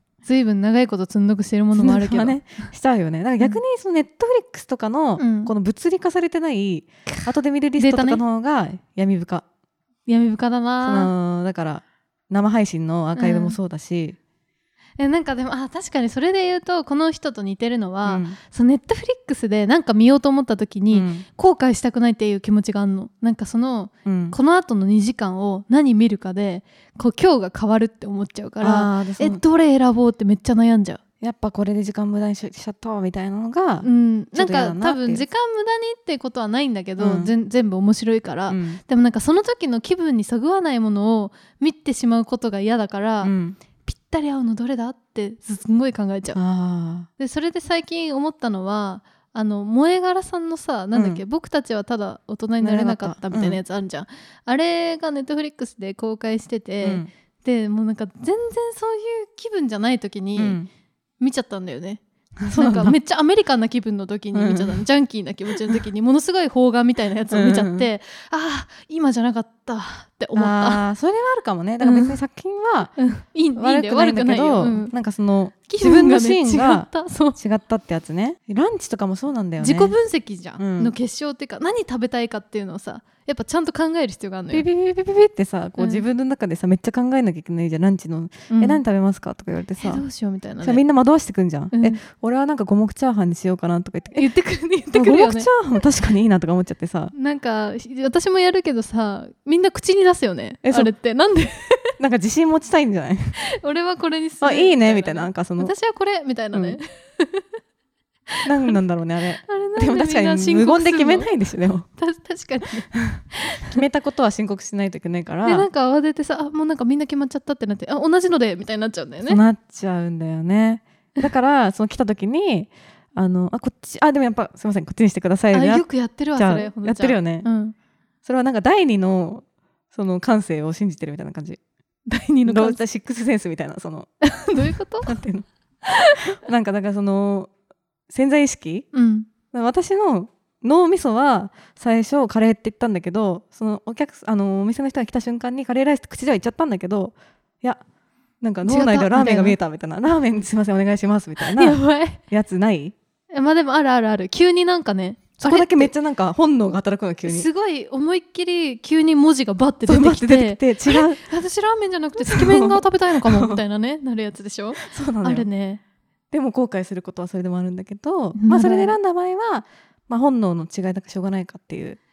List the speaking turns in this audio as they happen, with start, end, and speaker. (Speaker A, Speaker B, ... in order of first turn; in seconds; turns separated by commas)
Speaker A: 0.2-2.6, Speaker B: 1.7-9.4, Speaker A: 5.2-5.5, Speaker A: 7.8-8.2, Speaker A: 10.1-11.1, Speaker B: 10.8-14.2, Speaker A: 13.2-13.6, Speaker A: 15.0-31.0, Speaker B: 18.1-18.4, Speaker B: 20.9-21.2, Speaker B: 24.1-24.4, Speaker B: 28.6-29.4, Speaker B: 31.2-35.2, Speaker A: 33.8-43.3, Speaker B: 37.0-37.3, Speaker B: 38.5-38.8, Speaker B: 43.2-43.6, Speaker A: 43.9-46.4, Speaker B: 46.4-47.1, Speaker A: 47.2-60.6, Speaker B: 50.9-51.2, Speaker B: 52.6-53.6, Speaker B: 56.8-57.1, Speaker B: 60.4-60.7, Speaker A: 61.2-62.0, Speaker B: 62.4-63.0, Speaker A: 62.5-70.8, Speaker B: 64.3-64.8, Speaker B: 67.3-67.9, Speaker B: 70.3-72.9, Speaker A: 71.8-72.2, Speaker A: 73.0-74.9, Speaker B: 73.5-80.0, Speaker A: 75.7-77.4, Speaker A: 79.6-84.7, Speaker B: 80.6-80.9, Speaker B: 84.5-90.0, Speaker A: 85.8-86.0, Speaker A: 88.5-88.8, Speaker A: 89.8-90.8, Speaker B: 90.6-94.3, Speaker A: 91.7-92.0, Speaker A: 94.1-95.5, Speaker B: 94.9-97.1, Speaker A: 97.1-101.9, Speaker B: 100.6-100.9, Speaker B: 102.0-103.4, Speaker A: 103.5-107.5, Speaker B: 104.4-105.7, Speaker B: 106.5-106.8, Speaker A: 108.3-108.7, Speaker B: 108.5-111.8, Speaker A: 109.5-111.3, Speaker A: 111.9-113.8, Speaker B: 113.0-115.7, Speaker A: 115.4-119.4, Speaker B: 119.3-127.5, Speaker A: 125.5-127.8, Speaker B: 128.2-131.6, Speaker A: 132.1-132.8, Speaker B: 132.5-134.1, Speaker A: 134.2-135.1, Speaker B: 135.0-135.5, Speaker A: 135.9-136.2, Speaker B: 136.3-137.5, Speaker B: 138.1-138.9, Speaker A: 138.9-139.3, Speaker B: 139.5-147.8, Speaker B: 148.4-152.9, Speaker A: 148.7-149.6, Speaker A: 151.4-152.2, Speaker A: 153.3-155.9, Speaker B: 155.4-157.5, Speaker A: 157.3-165.8, Speaker B: 159.9-161.2, Speaker B: 162.2-163.6, Speaker B: 164.8-165.5, Speaker B: 166.3-172.0, Speaker A: 168.4-169.0